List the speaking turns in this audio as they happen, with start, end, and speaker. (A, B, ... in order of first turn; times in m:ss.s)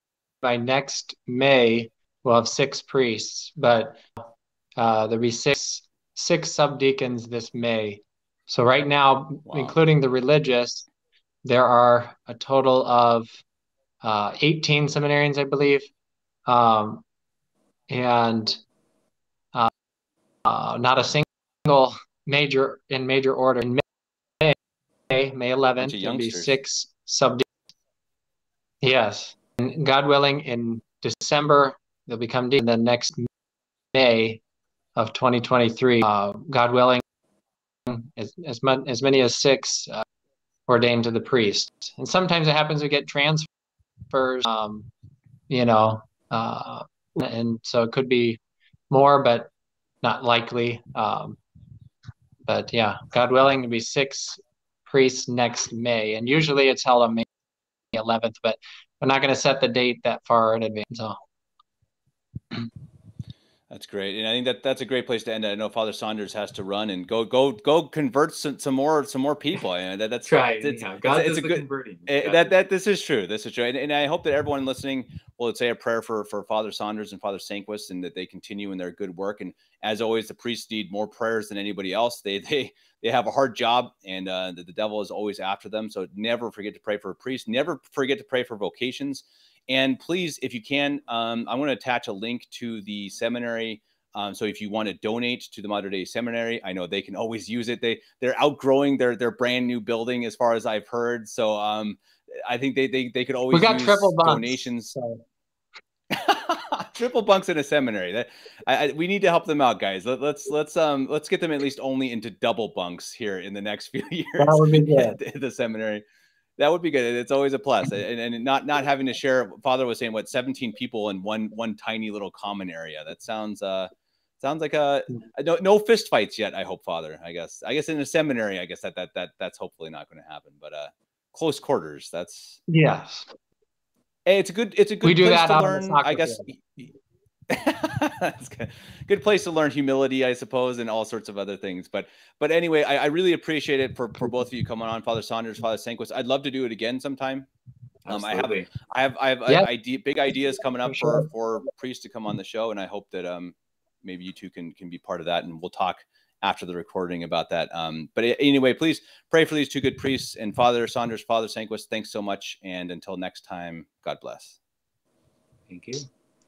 0:00.4-0:04.1 A
0:04.8-0:10.9 A
0:09.4-0:09.8 B
0:11.4-0:13.4 A
0:14.0-0:15.9 A
0:16.4-0:17.0 A
0:17.9-0:18.6 A
0:20.4-0:23.8 A
0:25.1-0:27.5 A
0:25.8-0:26.6 B
0:28.8-0:33.3 A
0:33.9-0:34.4 A
0:35.0-0:37.0 A
0:37.9-0:40.0 A
0:40.7-0:43.5 A
0:44.1-0:44.9 A
0:45.5-0:49.5 A
0:50.0-0:51.4 A
0:52.4-0:57.3 A
0:57.9-1:01.2 A
1:03.7-1:45.0 B
1:10.3-1:12.6 C
1:43.5-1:45.2 A
1:46.1-1:56.0 B
1:54.4-1:55.2 A
1:56.6-2:03.9 B
2:04.4-2:12.6 B
2:12.7-2:13.3 A
2:14.3-2:16.9 B
2:15.0-2:16.5 A
2:17.5-2:27.5 B
2:28.0-2:28.7 C
2:28.1-2:44.6 B
2:31.0-2:31.2 A
2:45.7-2:46.1 C